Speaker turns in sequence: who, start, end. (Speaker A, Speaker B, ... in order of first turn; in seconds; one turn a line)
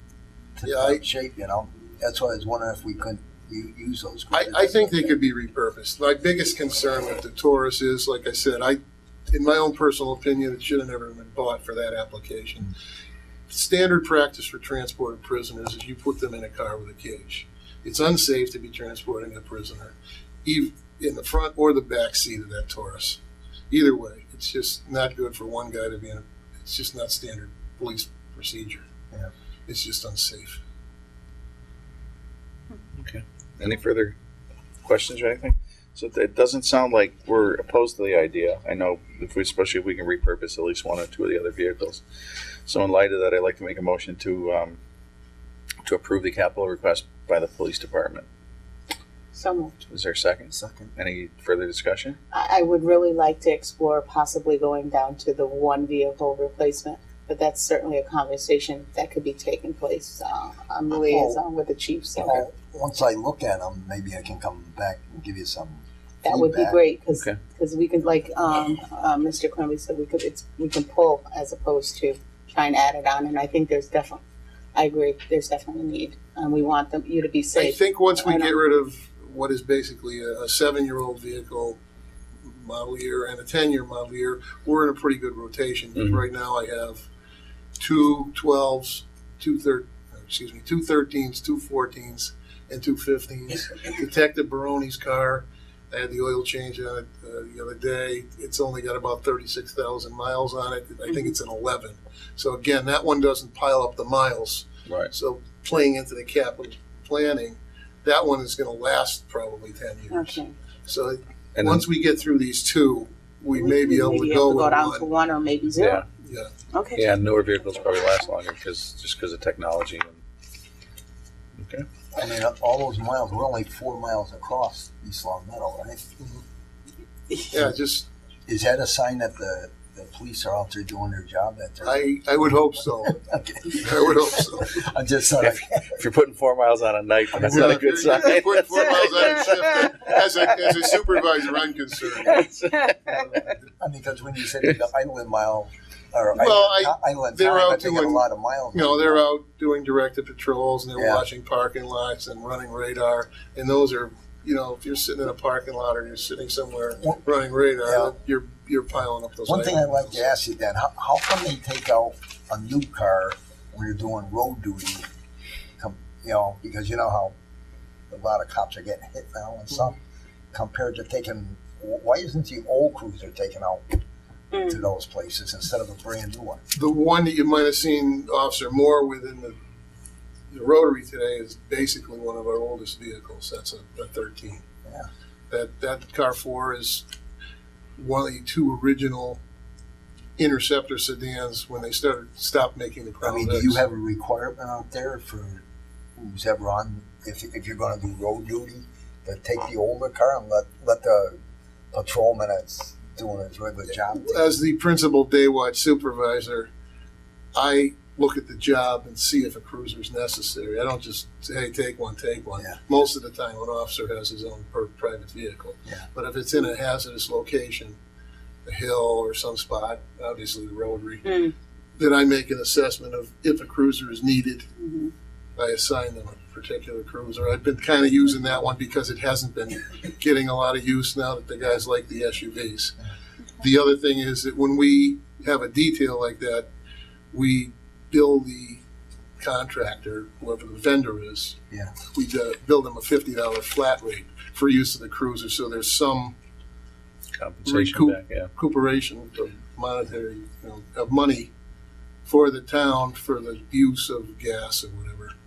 Speaker A: 0.5-5.2
Speaker B: 0.6-1.0
Speaker B: 4.3-12.7
Speaker B: 13.5-23.2
Speaker B: 23.7-28.8
Speaker B: 29.7-30.6
Speaker C: 33.0-34.1
Speaker C: 34.8-42.0
Speaker C: 42.6-44.8
Speaker C: 45.8-48.2
Speaker D: 49.3-49.8
Speaker C: 49.9-52.2
Speaker A: 50.5-50.9
Speaker D: 52.3-62.4
Speaker A: 60.9-61.4
Speaker A: 62.2-66.8
Speaker D: 66.2-74.2
Speaker C: 67.1-67.4
Speaker D: 74.7-78.6
Speaker B: 77.5-81.8
Speaker B: 82.4-87.1
Speaker B: 87.8-115.1
Speaker C: 104.8-105.1
Speaker D: 110.1-110.5
Speaker C: 111.6-111.8
Speaker D: 113.5-116.0
Speaker C: 115.8-116.0
Speaker B: 116.2-116.6
Speaker D: 116.7-118.1
Speaker C: 116.9-120.2
Speaker C: 121.6-121.8
Speaker A: 122.1-126.0
Speaker B: 126.2-126.4
Speaker B: 127.5-128.1
Speaker A: 128.5-132.1
Speaker B: 131.8-133.2
Speaker A: 133.0-136.0
Speaker B: 133.7-134.8
Speaker C: 135.4-140.7
Speaker B: 137.3-143.6
Speaker C: 142.2-143.1
Speaker A: 143.8-149.2
Speaker B: 146.3-160.3
Speaker A: 150.9-151.2
Speaker A: 157.8-158.2
Speaker A: 159.4-165.1
Speaker A: 165.8-167.3
Speaker A: 168.1-170.0
Speaker A: 170.5-174.0
Speaker D: 174.5-174.8
Speaker A: 174.6-176.6
Speaker B: 176.7-179.6
Speaker B: 180.5-184.6
Speaker B: 185.5-187.1
Speaker B: 188.0-189.4
Speaker B: 190.4-193.8
Speaker A: 193.2-195.6
Speaker A: 196.2-201.4
Speaker A: 201.9-204.6
Speaker B: 204.1-206.7
Speaker B: 207.5-218.0
Speaker A: 212.6-212.8
Speaker B: 218.6-221.4
Speaker D: 221.2-221.5
Speaker B: 221.9-224.7
Speaker D: 224.8-225.1
Speaker B: 225.6-232.9
Speaker B: 233.6-236.7
Speaker B: 237.3-238.8
Speaker B: 239.4-246.3
Speaker A: 241.7-242.0
Speaker C: 247.3-248.5
Speaker B: 247.6-251.5
Speaker B: 252.2-255.3